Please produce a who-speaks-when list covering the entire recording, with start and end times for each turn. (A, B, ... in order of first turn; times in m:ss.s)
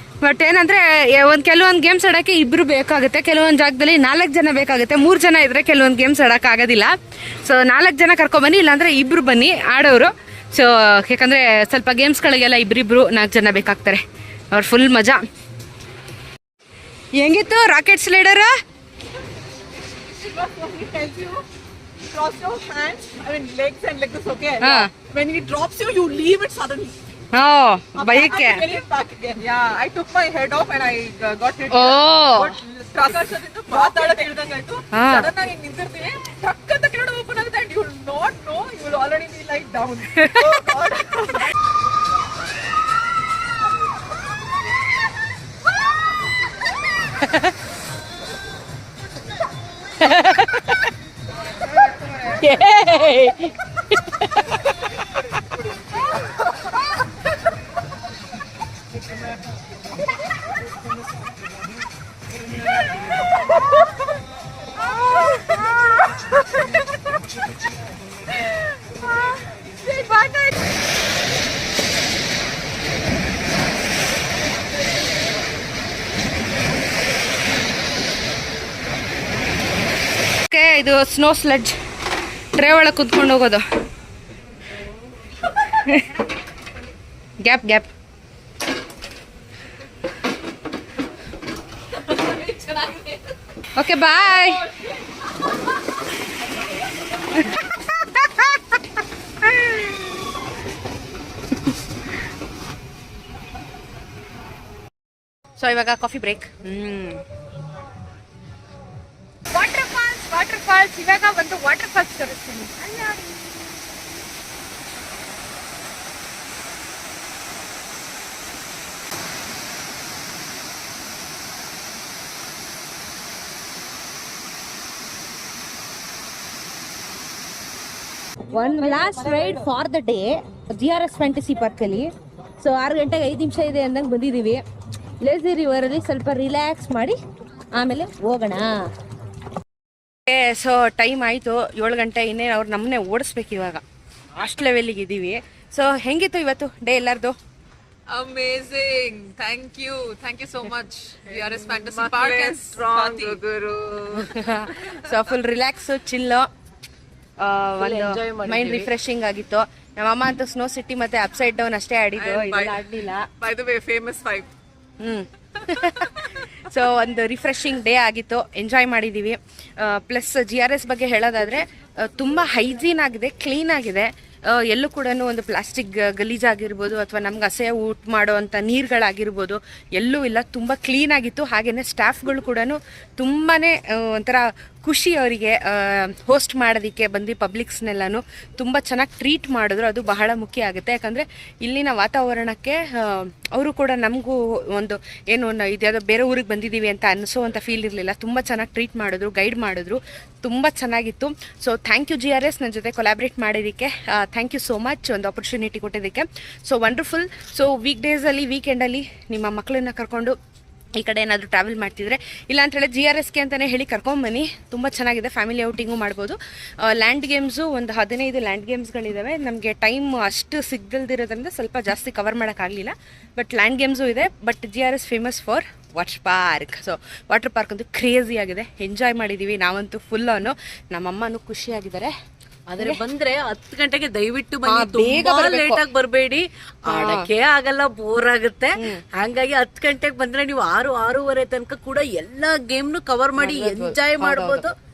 0:00.2-0:06.9 A
0:07.4-0:14.0 A
0:14.5-0:15.2 A
0:17.1-0:18.5 A
0:20.3-0:21.4 B
0:22.1-0:26.9 B
0:24.6-0:24.9 A
0:27.3-0:28.7 A
0:28.0-0:41.5 B
0:31.7-0:32.5 A
0:33.8-0:34.0 C
0:34.9-0:35.3 A
0:40.2-0:40.4 A
0:50.0-0:50.7 C
0:52.4-0:54.5 C
1:20.4-1:21.8 A
1:22.5-1:23.6 A
1:25.7-1:26.2 A
1:27.4-1:27.9 A
1:33.8-1:34.7 A
1:37.4-1:38.8 A
1:39.4-1:40.0 A
1:45.6-1:47.2 A
1:49.5-1:53.5 A
2:08.5-2:14.6 A
2:15.2-2:17.2 A
2:17.7-2:18.8 A
2:20.2-2:23.8 A
2:24.3-2:27.4 A
2:28.1-2:34.9 B
2:31.3-2:33.4 C
2:34.2-2:36.5 A
2:37.4-2:43.3 A
2:37.8-2:38.9 C
2:42.2-2:42.9 B
2:43.4-2:44.5 B
2:45.0-3:30.4 A
3:31.0-3:52.1 A
3:52.7-4:04.7 C
3:54.6-3:55.8 A
3:56.9-3:57.3 A
4:03.4-4:04.6 A